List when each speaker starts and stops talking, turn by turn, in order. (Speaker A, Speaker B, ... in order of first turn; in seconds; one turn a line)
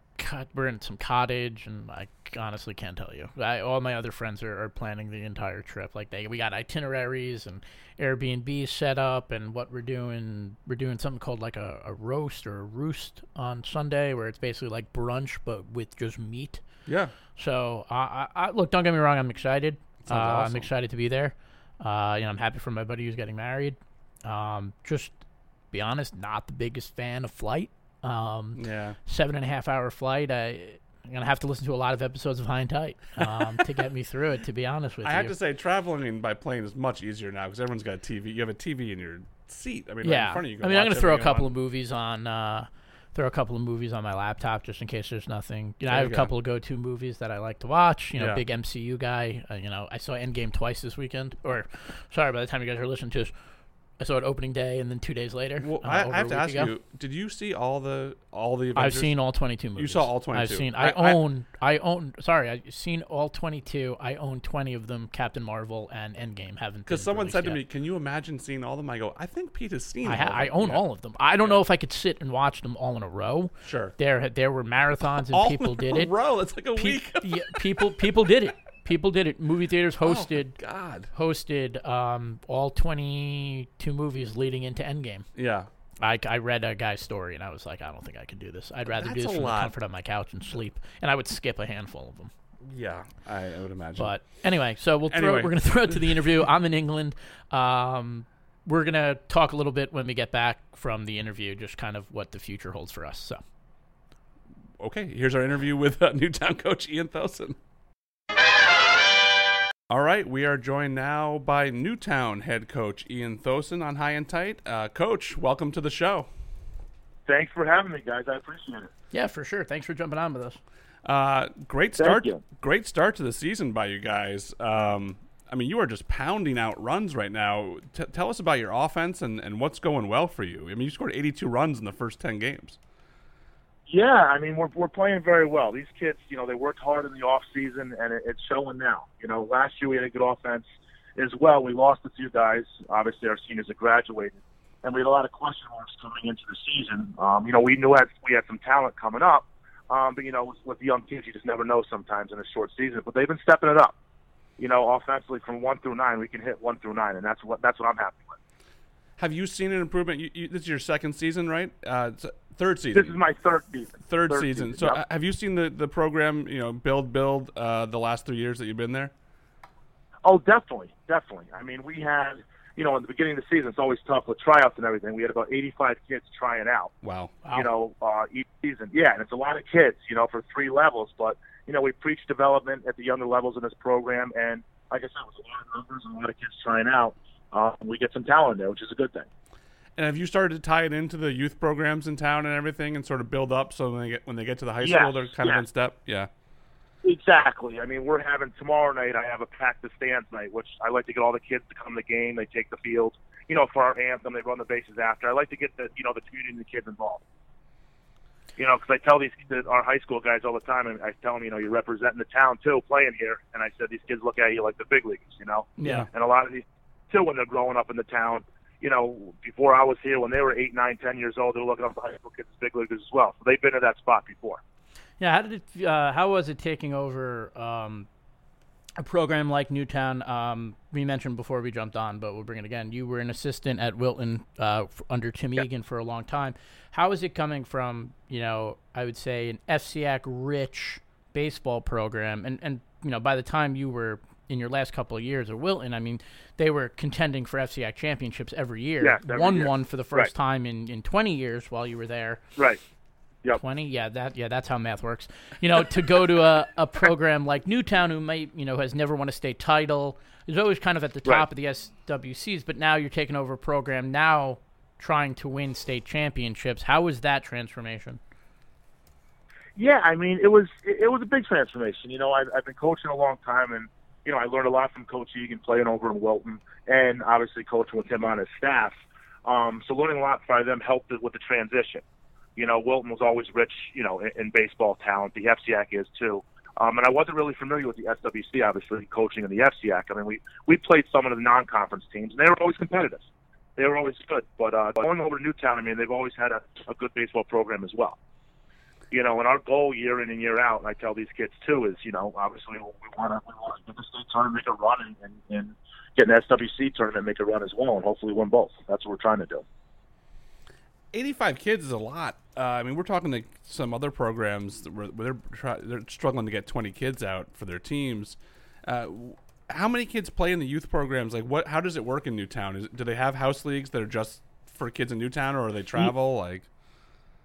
Speaker A: 0.2-16.6
Speaker B: 16.9-17.1
Speaker A: 17.4-25.1
Speaker B: 20.1-20.7
Speaker A: 25.7-35.3
Speaker B: 28.6-29.0
Speaker B: 35.0-41.5
Speaker A: 40.0-53.3
Speaker B: 45.9-46.3
Speaker B: 48.2-48.4
Speaker A: 54.0-56.7
Speaker B: 55.6-59.1
Speaker A: 58.8-67.6
Speaker B: 59.8-61.2
Speaker B: 66.9-70.8
Speaker A: 70.0-76.1
Speaker B: 73.6-73.9
Speaker B: 75.3-77.8
Speaker A: 76.8-80.6
Speaker B: 80.0-81.1
Speaker A: 81.1-85.2
Speaker B: 85.3-85.7
Speaker A: 86.0-92.3
Speaker B: 88.9-89.8
Speaker B: 92.7-94.2
Speaker A: 94.0-103.4
Speaker B: 95.1-96.2
Speaker B: 104.8-107.6
Speaker B: 109.9-116.3
Speaker C: 117.3-118.9
Speaker A: 119.1-120.6
Speaker B: 121.0-132.8
Speaker C: 122.0-122.4
Speaker C: 133.9-153.9
Speaker C: 154.6-158.4
Speaker B: 159.2-163.2
Speaker C: 162.9-165.0
Speaker B: 164.1-169.1
Speaker C: 170.2-176.9
Speaker B: 177.0-177.4
Speaker C: 177.5-189.3
Speaker B: 190.0-196.3
Speaker C: 194.8-195.6
Speaker C: 197.0-207.2
Speaker C: 208.6-224.6
Speaker A: 215.8-216.1
Speaker B: 215.8-216.1
Speaker A: 225.2-228.1
Speaker A: 229.0-252.4
Speaker C: 249.0-250.3
Speaker A: 253.6-268.2
Speaker C: 269.8-278.9
Speaker C: 279.4-282.0
Speaker C: 282.6-293.2
Speaker C: 293.8-298.2
Speaker C: 299.1-309.6
Speaker B: 311.1-326.7